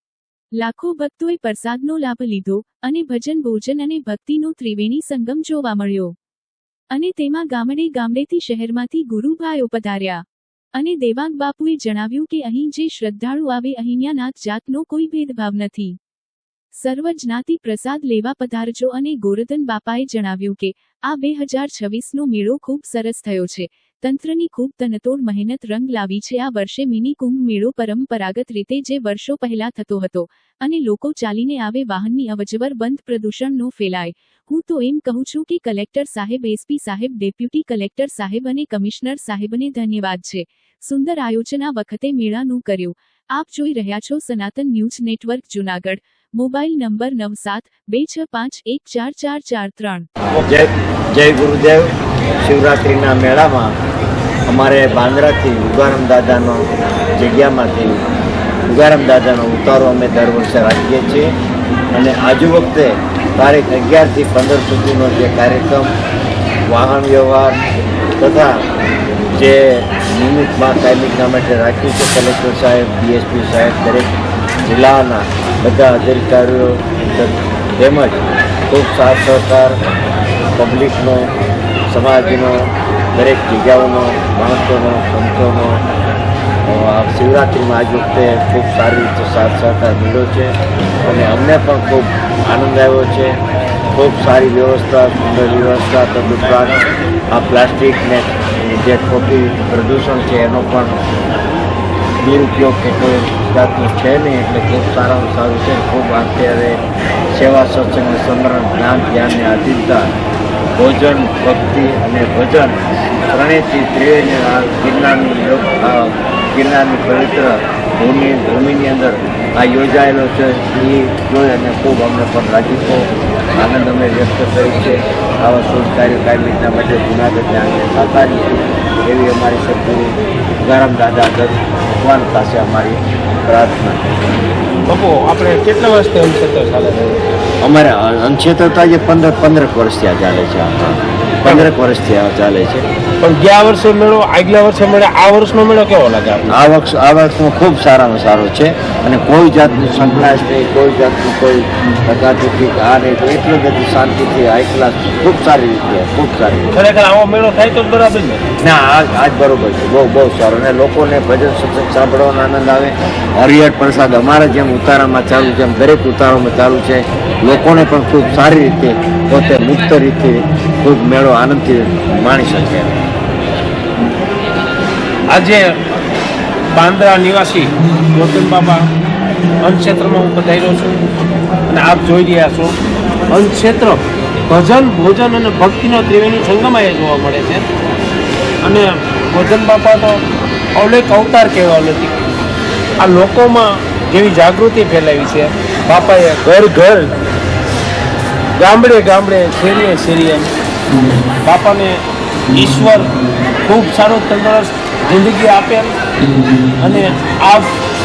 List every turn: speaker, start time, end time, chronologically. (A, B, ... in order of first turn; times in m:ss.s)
0:00.6-0:06.1 A
0:06.9-0:10.2 A
0:10.8-0:16.0 A
0:16.8-0:50.1 A
0:50.4-0:53.8 B
0:54.5-0:56.6 B
0:57.2-0:58.0 B
0:58.7-1:01.3 B
1:01.9-1:05.9 B
1:06.7-1:07.6 B
1:08.2-1:08.6 B
1:09.3-1:14.1 B
1:14.6-1:19.8 B
1:20.6-1:21.3 B
1:21.9-1:25.8 B
1:26.7-1:33.4 B
1:33.9-1:36.8 B
1:37.3-1:41.0 B
1:42.2-1:46.8 B
1:47.3-1:50.1 B
1:50.8-2:14.2 B
2:14.9-2:17.2 C
2:17.6-2:22.8 B
2:21.4-2:21.7 C
2:23.2-2:26.6 C
2:26.5-2:36.7 B
2:36.7-2:38.4 C
2:38.6-2:53.0 B
2:55.3-2:55.7 C
2:56.7-2:58.8 C
2:59.6-3:01.0 C
3:01.7-3:02.8 C
3:03.3-3:07.7 C
3:08.6-3:10.2 C
3:10.8-3:12.1 C
3:13.0-3:17.1 C
3:18.6-3:20.5 C
3:21.4-3:22.0 C
3:22.5-3:26.0 C
3:26.8-3:27.8 C